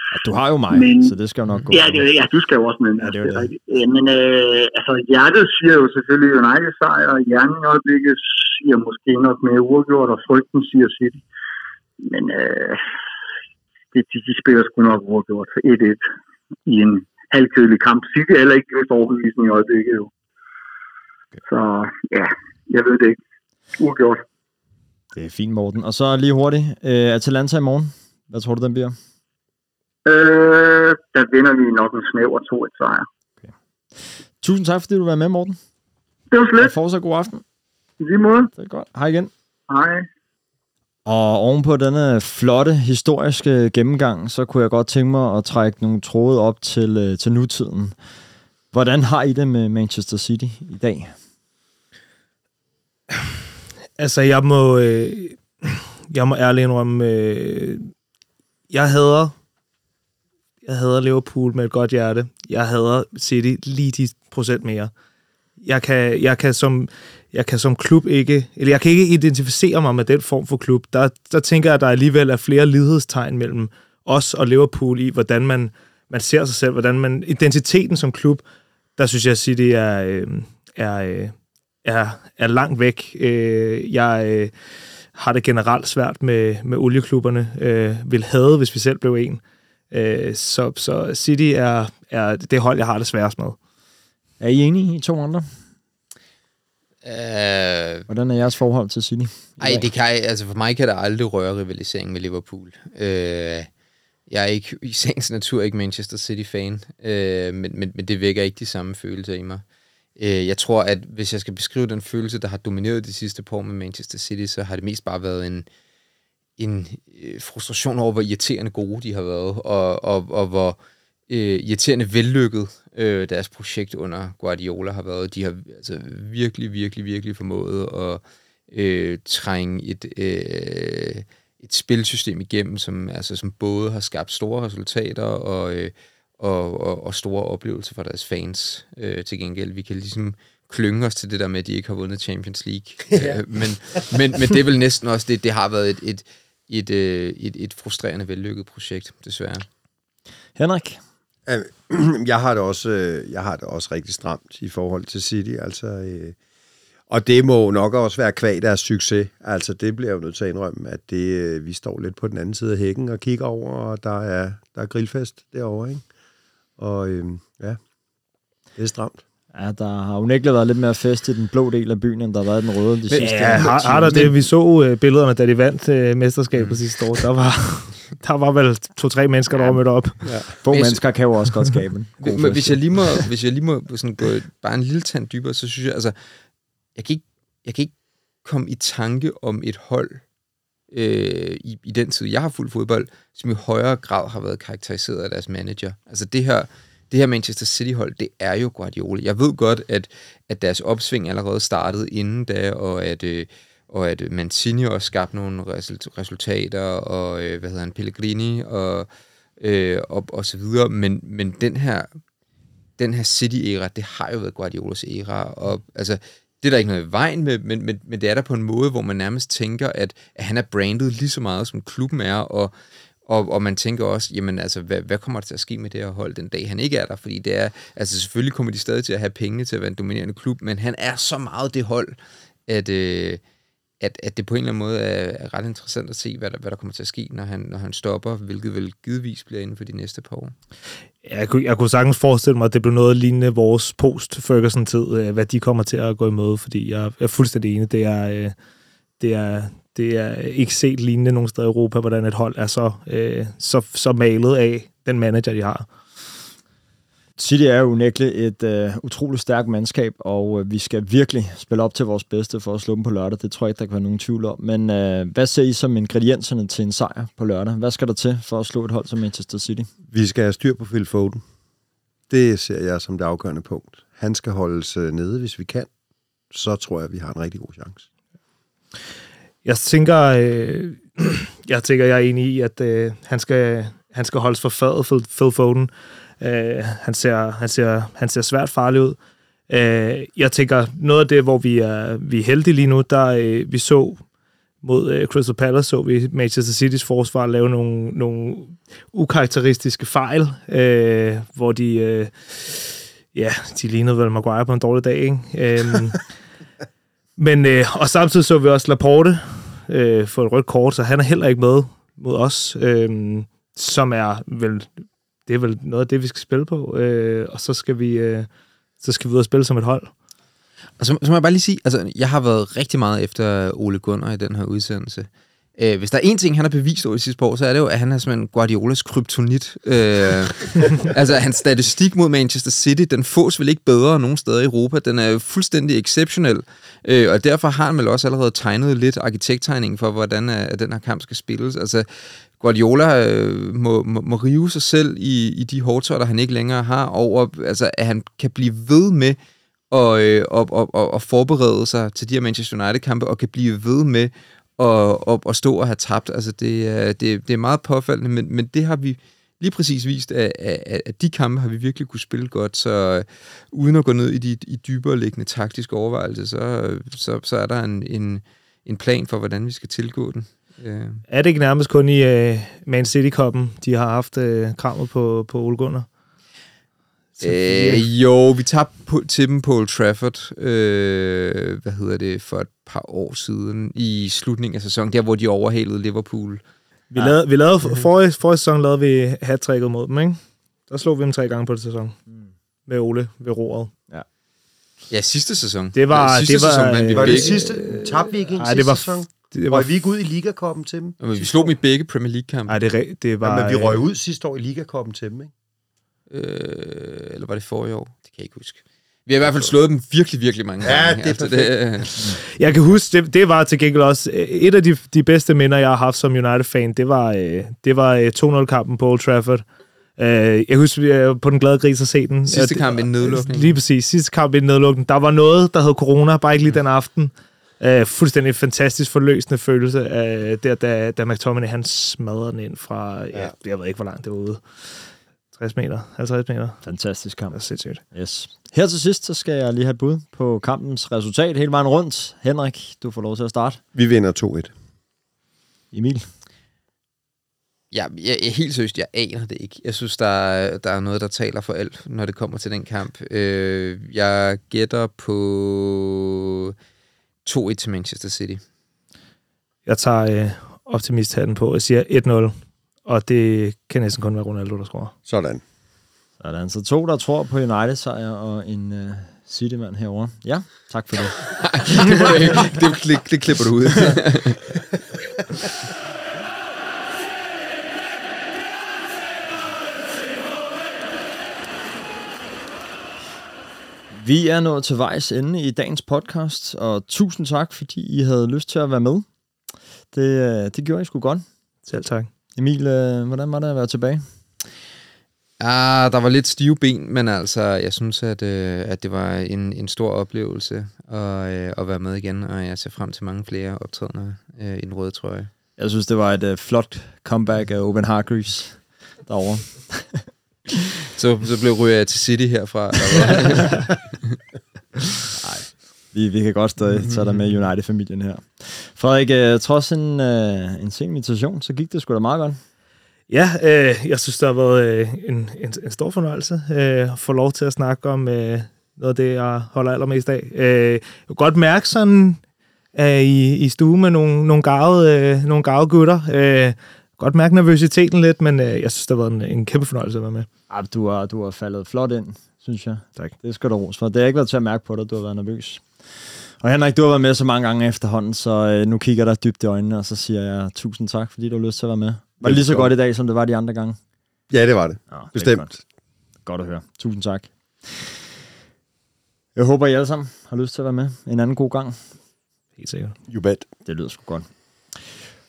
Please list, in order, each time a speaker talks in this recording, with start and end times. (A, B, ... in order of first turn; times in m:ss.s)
0:00.1-0:02.1 A
0:00.7-0:01.2 B
0:01.7-0:11.2 B
0:03.0-0:03.5 A
0:12.0-0:12.8 B
0:13.9-0:16.1 B
0:16.7-0:20.1 B
0:21.4-0:23.2 B
0:23.8-0:24.2 B
0:25.2-0:29.0 A
0:30.1-0:33.1 B
0:34.4-0:35.6 A
0:36.3-0:36.8 B
0:36.6-0:37.4 A
0:38.0-0:38.5 B
0:38.6-0:39.3 A
0:39.7-0:40.1 B
0:41.1-0:47.9 A
0:48.7-0:51.1 A
0:54.0-0:57.9 C
0:58.7-0:59.4 C
1:00.6-1:04.9 C
1:05.6-1:18.4 C
1:19.0-1:24.5 C
1:25.2-1:33.6 C
1:34.4-1:35.5 A
1:37.0-1:38.1 D
1:38.1-1:39.9 A
1:39.6-1:43.7 D
1:44.3-1:49.6 D
1:50.2-1:55.7 D
1:56.6-2:00.8 D
2:01.3-2:29.6 D
2:23.1-2:23.4 E
2:30.6-2:31.0 A
2:31.5-2:36.4 E
2:37.1-2:46.0 E
2:46.8-2:47.8 E
2:48.8-2:49.2 E
2:49.5-2:54.4 A
2:53.1-2:54.3 D
2:53.2-3:00.2 C
3:00.6-3:03.3 A
3:00.7-3:01.0 D
3:02.2-3:06.2 D
3:07.0-3:07.9 D
3:08.4-3:10.2 D
3:10.9-3:29.1 D
3:29.6-3:32.1 D
3:33.0-3:42.7 D
3:43.3-3:52.2 D
3:52.7-3:53.4 D
3:54.0-4:00.5 D
4:01.2-4:08.6 C
4:09.2-4:15.9 C
4:17.4-4:29.9 A
4:30.1-4:31.4 E
4:32.3-4:35.9 E
4:36.5-4:38.0 E
4:39.6-4:49.2 C
4:49.7-4:54.2 C
4:54.8-5:06.2 C
5:07.4-5:14.9 C
5:15.5-5:18.5 C
5:19.0-5:20.1 C
5:21.0-5:42.1 D
5:42.6-5:49.4 D
5:49.9-6:11.2 D
6:11.3-6:16.1 C
6:17.4-6:18.0 C
6:17.4-6:26.6 D
6:27.1-6:32.2 C
6:32.9-6:33.9 C
6:35.1-6:37.7 D
6:36.0-6:39.9 C
6:37.1-6:41.4 E
6:41.2-6:42.8 D
6:42.7-6:44.0 C
6:43.4-6:45.5 E
6:46.3-6:52.3 D
6:50.8-6:51.8 E
6:52.2-6:59.6 C
7:00.2-7:16.8 C
7:02.5-7:03.8 D
7:16.8-7:17.6 A
7:17.5-7:18.0 C
7:18.1-7:23.8 A
7:24.0-7:24.7 E
7:25.9-7:26.3 A
7:27.9-7:36.7 D
7:37.5-7:38.6 D
7:39.9-7:45.1 C
7:45.3-7:45.6 E
7:46.4-7:52.8 A
7:51.6-7:54.8 D
8:04.1-8:09.3 A
8:10.1-8:11.4 A
8:11.9-8:12.3 C
8:12.6-8:14.3 A
8:15.6-8:25.5 D
8:25.8-8:30.3 A
8:31.2-8:34.0 D
8:35.4-8:42.6 A
8:43.3-8:52.4 C
8:53.0-9:00.5 C
9:00.7-9:06.1 A
9:06.6-9:14.0 A
9:12.4-9:12.9 E
9:14.5-9:15.7 E
9:15.1-9:15.8 A
9:16.4-9:18.1 A
9:19.6-9:22.1 A
9:22.8-9:23.2 C
9:23.3-9:23.7 E
9:23.9-9:25.1 A